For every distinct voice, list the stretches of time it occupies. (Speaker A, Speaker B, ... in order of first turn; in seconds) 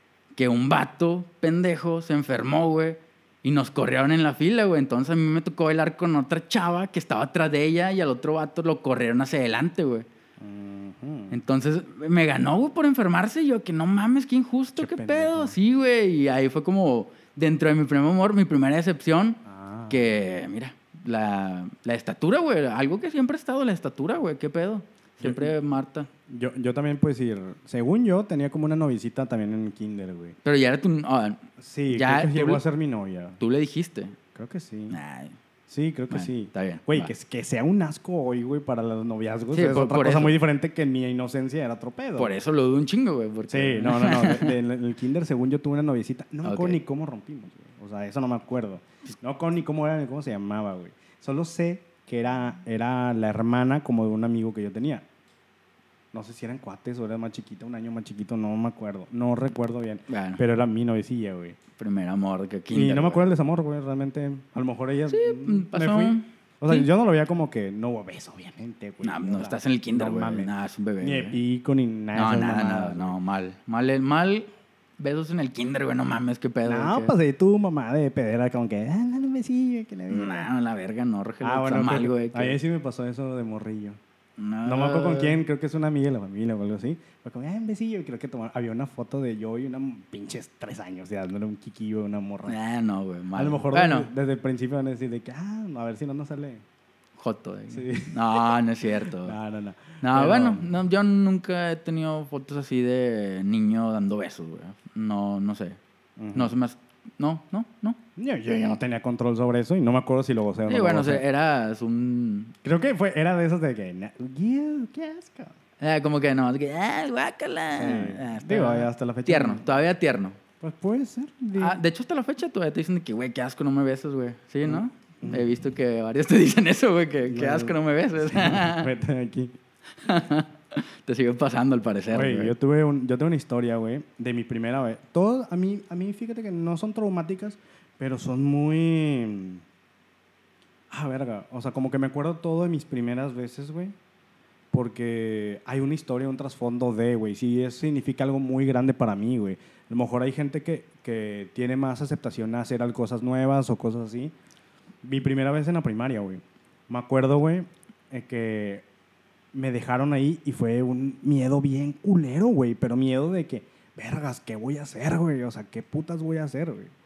Speaker A: 0.3-10.1, 11.3-26.1, 30.4-32.6, 33.4-34.2, 34.9-35.4, 36.1-37.1, 39.5-40.4, 42.2-44.5, 46.4-46.8, 60.1-60.4, 61.8-63.2, 65.1-66.9, 69.0-71.4, 72.2-77.1, 80.1-82.6, 84.4-85.4, 92.5-94.1, 97.2-99.4, 100.0-105.8, 106.3-108.0, 110.7-112.5, 115.8-120.4, 121.6-128.9, 130.0-132.5
Speaker B: 10.4-11.4, 14.8-15.6, 19.4-20.2, 25.2-25.5, 26.3-30.4, 31.6-33.4, 34.4-35.0, 35.7-42.4, 43.5-55.0, 56.1-61.6, 62.7-73.2, 76.7-80.5, 81.4-84.0, 84.7-92.6, 93.3-96.6, 97.7-100.7, 106.2-106.5, 108.2-111.2, 112.6-115.6, 117.7-119.7, 120.6-121.8, 124.7-125.5, 127.3-129.5, 132.1-139.6, 140.9-143.9, 144.7-154.3, 155.0-158.8, 159.5-166.9